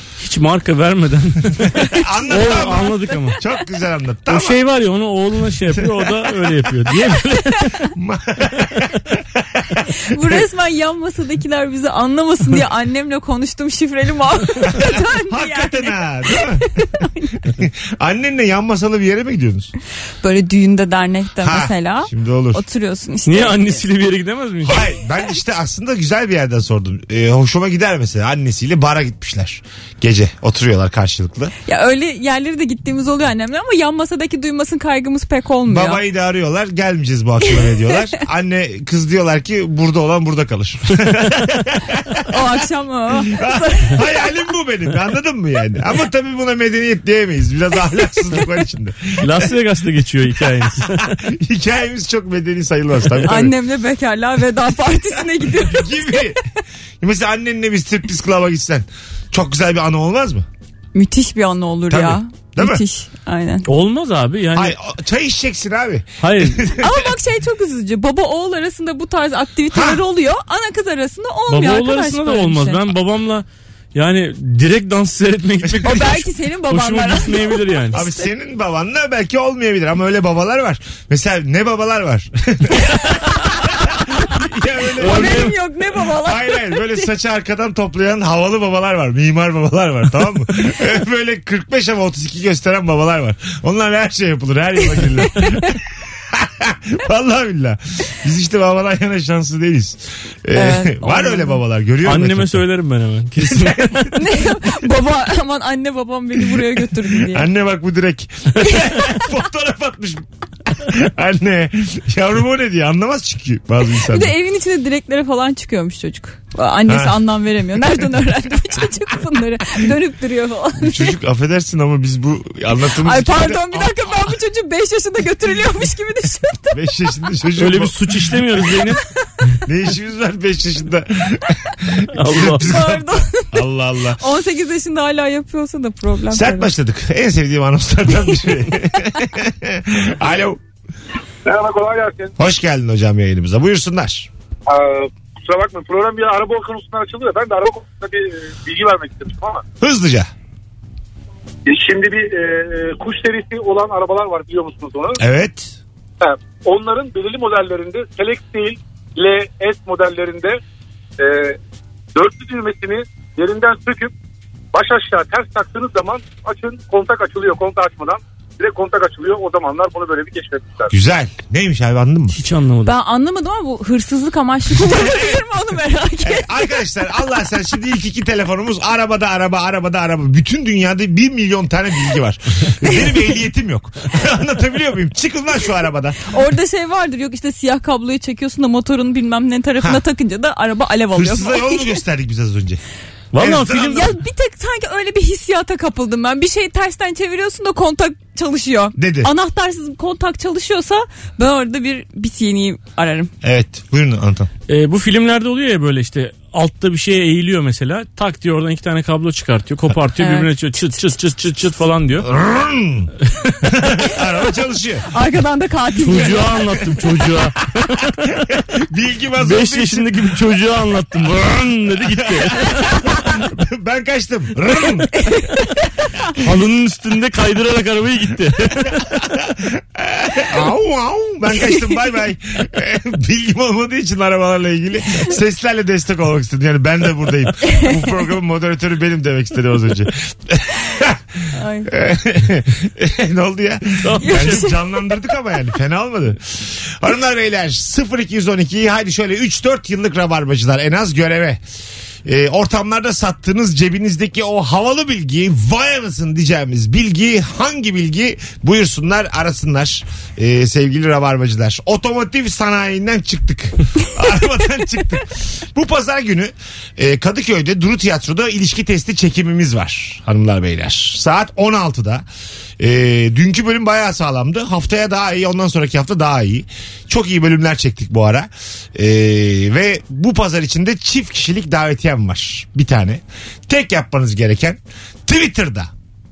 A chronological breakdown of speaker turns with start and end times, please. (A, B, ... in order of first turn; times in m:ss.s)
0:00.2-0:03.4 A
0:01.6-0:04.6 B
0:01.9-0:03.2 C
0:04.3-0:07.7 A
0:05.7-0:06.6 B
0:07.9-0:09.9 B
0:10.0-0:17.4 C
0:14.7-0:16.7 B
0:17.6-0:19.7 B
0:20.2-0:23.8 C
0:21.4-0:22.6 B
0:23.3-0:24.8 A
0:24.6-0:31.5 B
0:31.7-0:36.0 C
0:35.7-0:42.7 B
0:37.6-0:37.9 C
0:42.3-0:44.0 C
0:43.3-0:49.5 B
0:49.2-0:51.2 A
0:50.6-0:53.5 B
0:53.3-0:56.4 C
0:55.4-0:56.4 B
0:57.0-1:00.5 B
1:00.9-1:03.7 C
1:01.9-1:02.8 B
1:03.7-1:04.8 A
1:04.5-1:07.1 B
1:06.2-1:06.6 A
1:06.8-1:12.8 C
1:09.7-1:10.0 B
1:11.5-1:18.0 A
1:15.8-1:18.3 C
1:17.9-1:25.5 B
1:22.9-1:24.0 C
1:25.0-1:27.1 C
1:25.0-1:25.6 A
1:26.2-1:35.8 B
1:36.3-1:42.6 B
1:40.5-1:41.6 C
1:42.0-1:44.1 A
1:43.4-1:44.7 B
1:44.1-1:47.5 C
1:46.6-1:54.3 B
1:48.7-1:49.1 C
1:54.0-2:01.1 C
1:56.9-1:57.2 B
2:00.8-2:04.3 B
2:03.0-2:06.8 C
2:06.7-2:07.9 B
2:07.6-2:09.0 A
2:09.7-2:14.2 B
2:12.2-2:12.7 A
2:12.4-2:13.6 C
2:14.2-2:16.7 C
2:16.3-2:20.6 B
2:21.4-2:22.4 D
2:22.4-2:24.3 B
2:24.7-2:29.6 D
2:29.8-2:30.3 B
2:31.7-2:35.2 D
2:35.2-2:35.8 B
2:36.2-2:40.6 D
2:41.2-2:41.6 D
2:42.2-2:44.1 D
2:44.7-2:50.9 D
2:50.9-2:52.4 B
2:52.4-2:52.9 A
2:52.8-2:56.5 C
2:54.9-2:55.4 B
2:56.2-3:06.2 B
3:06.3-3:12.0 C
3:11.1-3:12.8 B
3:13.3-3:14.1 A
3:13.3-3:14.1 B
3:13.9-3:23.3 C
3:19.0-3:19.3 B
3:23.4-3:24.5 B
3:24.7-3:32.3 A
3:30.2-3:30.5 C
3:32.2-3:33.1 B
3:33.6-3:35.0 B
3:35.1-3:36.5 C
3:36.0-3:38.3 A
3:36.2-3:36.8 B
3:38.5-3:40.3 B
3:39.4-3:42.8 A
3:42.0-3:45.2 B
3:46.4-3:49.0 A
3:48.8-4:01.2 B
3:57.7-3:57.9 C
4:01.5-4:01.9 C
4:01.9-4:11.6 B
4:04.0-4:04.7 A
4:04.2-4:05.2 C
4:12.2-4:32.2 B
4:32.8-4:45.9 B